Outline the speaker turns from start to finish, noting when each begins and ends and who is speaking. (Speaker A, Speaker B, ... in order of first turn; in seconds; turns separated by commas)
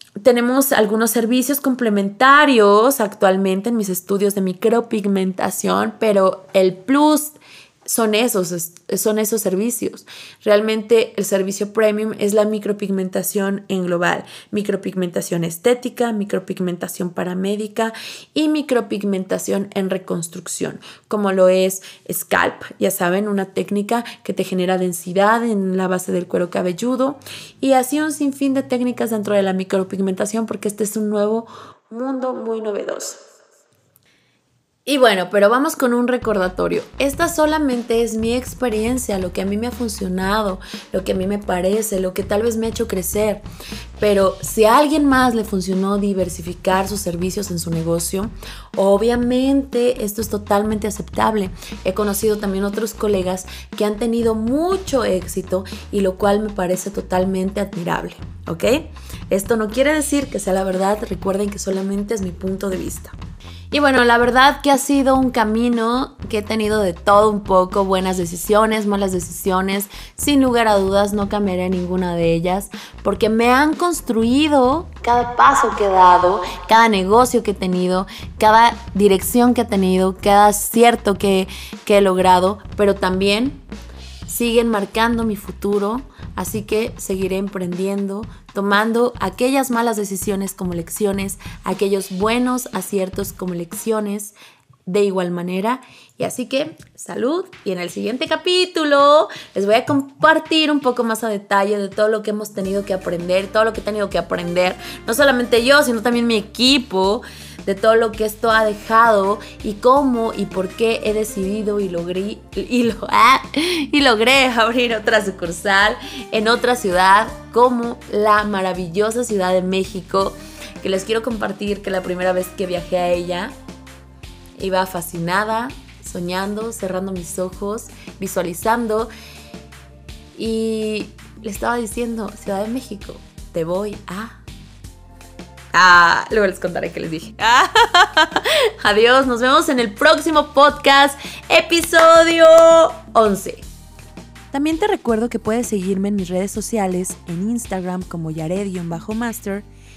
Speaker A: 0.2-33.2, Speaker A: 34.9-43.4, Speaker A: 44.0-63.1, Speaker A: 63.7-83.6, Speaker A: 84.2-94.3, Speaker A: 94.8-123.5, Speaker A: 124.6-129.1, Speaker A: 130.3-134.4, Speaker A: 135.7-143.7, Speaker A: 144.5-149.7